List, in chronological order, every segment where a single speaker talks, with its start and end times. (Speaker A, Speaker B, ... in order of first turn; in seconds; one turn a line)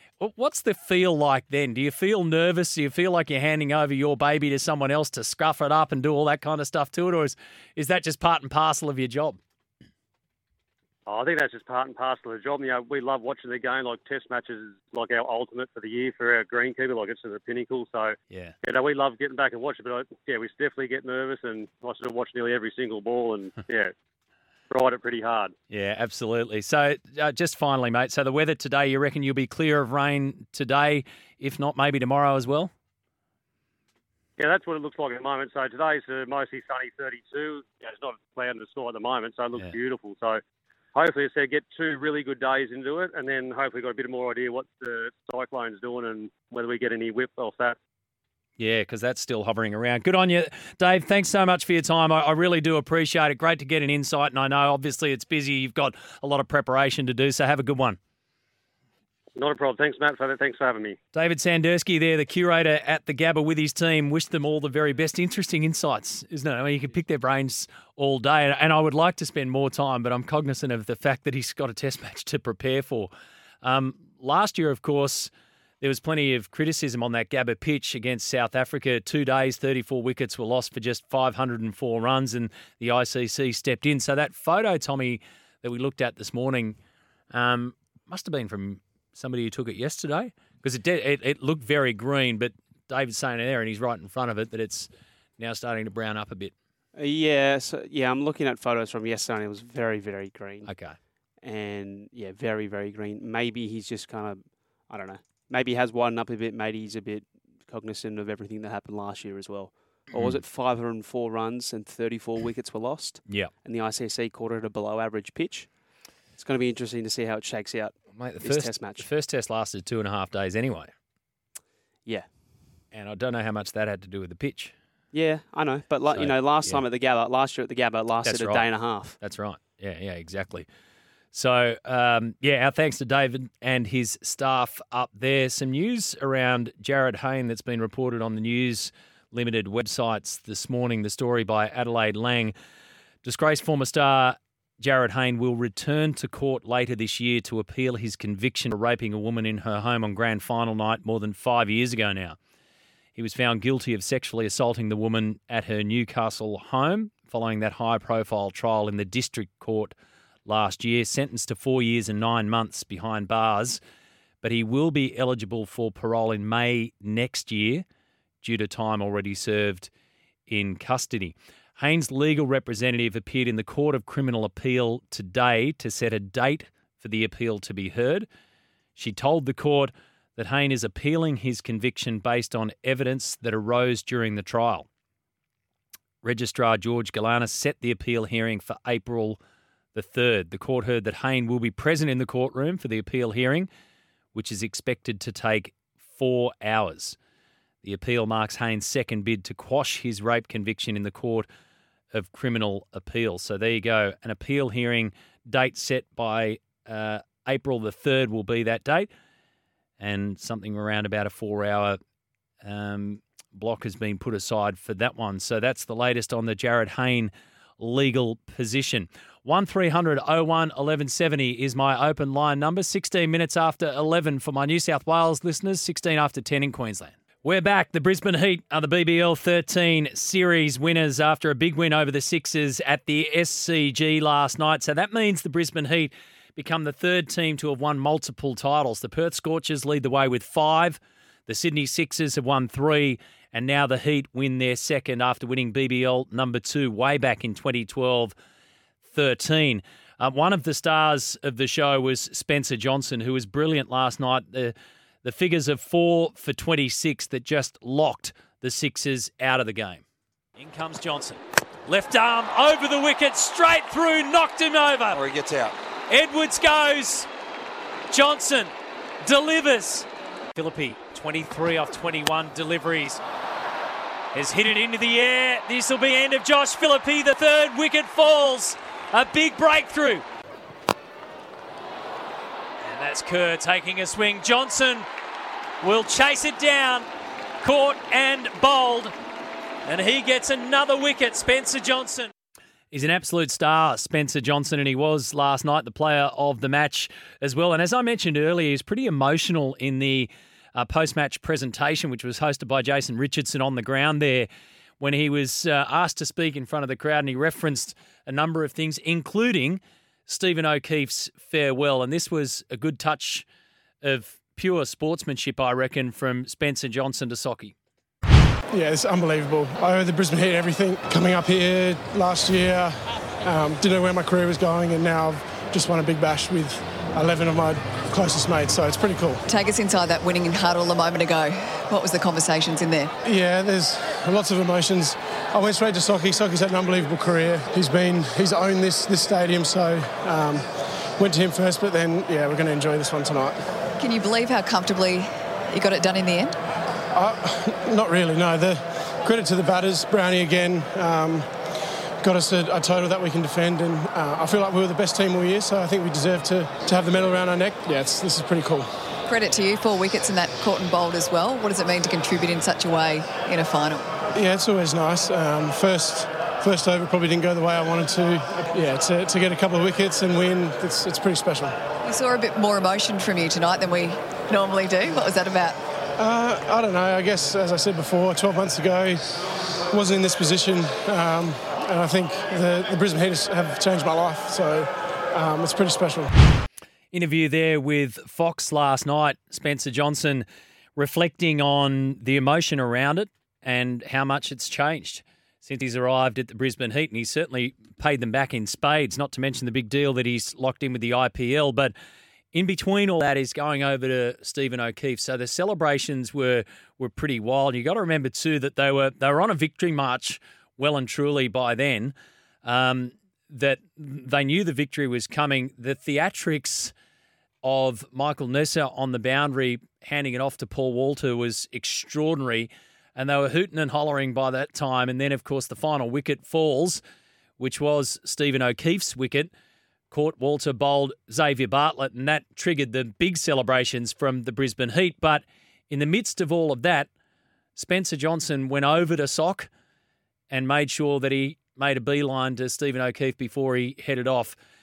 Speaker A: 0.2-9.4
Speaker B: 11.1-23.9
Speaker A: 18.3-18.6
Speaker B: 24.7-25.5
Speaker A: 25.7-32.7
Speaker B: 34.4-40.4
Speaker B: 41.0-47.8
Speaker A: 48.6-58.0
Speaker B: 59.4-61.0
Speaker A: 61.1-73.1
Speaker A: 73.6-75.3
Speaker A: 75.8-86.8
Speaker A: 87.3-96.5
Speaker C: 97.0-100.7
Speaker A: 100.7-101.0
Speaker C: 101.4-115.7
Speaker A: 110.1-110.4
Speaker A: 113.3-113.5
Speaker C: 116.3-119.1
Speaker A: 118.2-120.9
Speaker A: 122.9-124.7
Speaker C: 125.1-129.2
Speaker A: 126.1-126.8
Speaker A: 128.2-130.7
Speaker A: 131.3-142.5
Speaker A: 143.2-152.4
Speaker A: 153.2-159.9
Speaker A: 160.5-163.8
Speaker A: 164.4-167.8
Speaker A: 168.4-169.9
Speaker A: 170.5-178.3
Speaker A: 179.0-184.9
Speaker A: 186.2-189.4
Speaker A: 189.9-193.7
Speaker A: 194.3-197.2
Speaker A: 197.8-201.5
Speaker A: 202.1-209.1
Speaker A: 210.0-212.0
Speaker A: 212.6-248.3
Speaker A: 249.1-260.0
Speaker A: 260.6-267.3
Speaker A: 268.1-268.7
Speaker A: 269.2-273.2
Speaker A: 274.3-280.2
Speaker A: 282.9-285.1
Speaker A: 285.8-287.1
Speaker A: 287.6-289.1
Speaker A: 289.9-292.3
Speaker A: 292.9-304.5
Speaker A: 305.0-313.4
Speaker A: 314.0-317.8
Speaker D: 318.7-329.4
Speaker E: 329.5-333.1
Speaker D: 333.2-343.6
Speaker E: 344.0-346.5
Speaker D: 347.1-351.5
Speaker D: 352.2-358.9
Speaker E: 359.3-364.1
Speaker D: 364.3-371.8
Speaker E: 372.0-375.8
Speaker D: 376.2-379.2
Speaker D: 379.9-386.3
Speaker A: 387.1-401.9
Speaker A: 402.5-416.9
Speaker A: 417.6-427.0
Speaker A: 427.6-429.5
Speaker A: 430.1-437.1
Speaker A: 437.8-439.7
Speaker A: 440.5-444.6